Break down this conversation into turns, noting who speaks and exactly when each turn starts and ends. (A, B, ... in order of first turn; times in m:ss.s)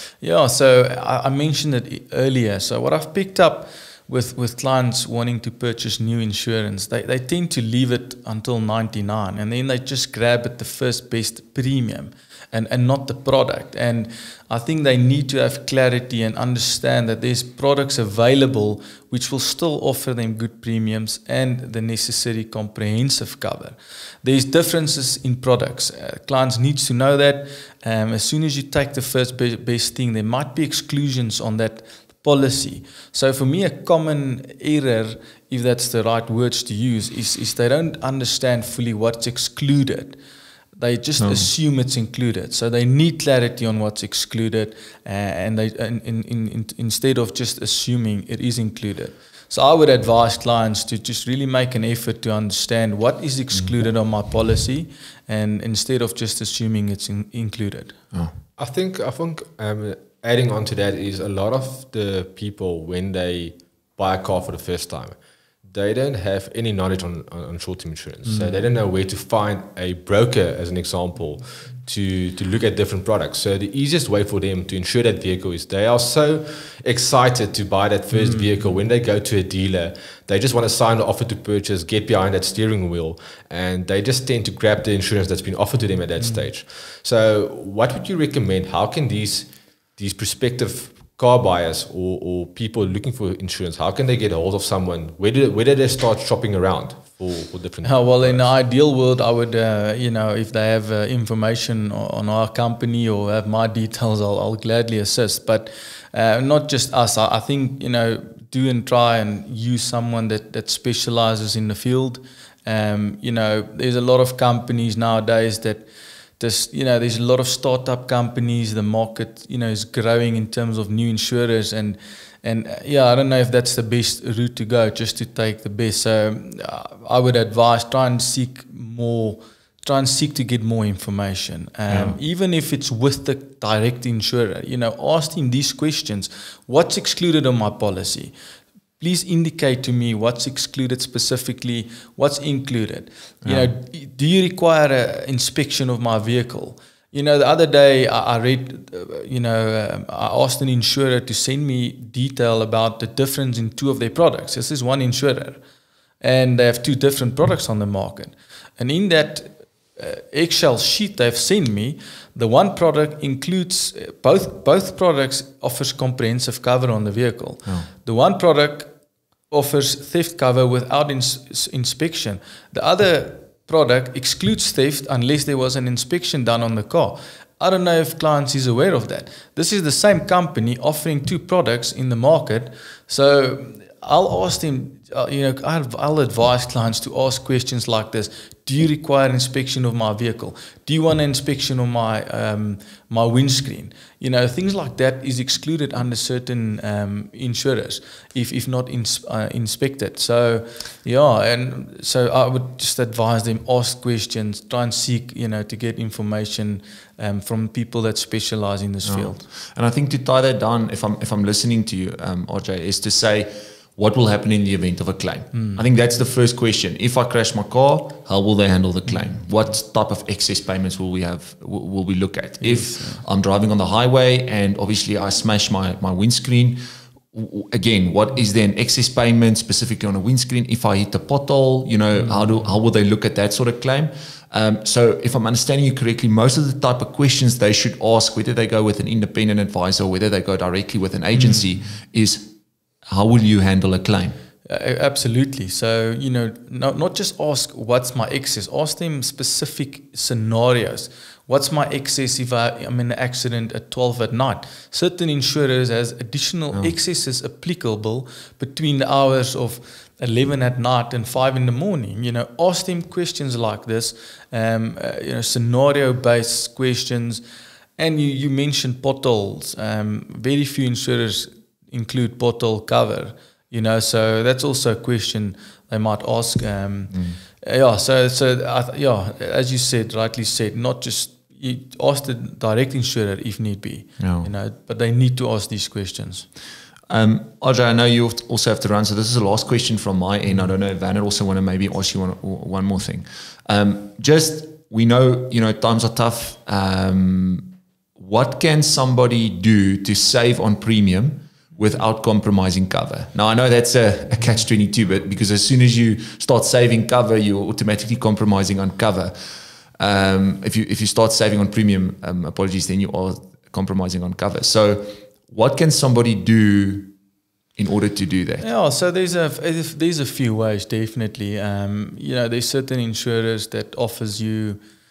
0:00.2-0:40.2 A
0:40.8-0:58.0 A
0:41.2-0:41.5 B
0:58.6-1:38.5 C
1:18.1-1:18.5 A
1:26.2-1:26.5 A
1:37.8-1:55.8 A
1:56.4-2:18.3 A
2:11.9-2:12.2 B
2:19.0-2:35.6 A
2:23.4-2:23.7 B
2:36.2-2:48.9 A
2:49.5-3:29.4 A
3:29.0-4:02.5 B
3:35.5-3:35.8 A
3:42.6-3:43.2 A
3:52.2-3:52.4 A
4:01.4-4:01.6 A
4:03.1-4:04.4 B
4:04.6-4:27.4 A
4:28.0-4:46.5 A
4:37.1-4:37.4 B
4:44.2-4:44.5 B
4:47.1-5:09.4 B
5:10.0-5:17.1 B
5:17.8-5:18.6 B
5:18.6-5:24.8 A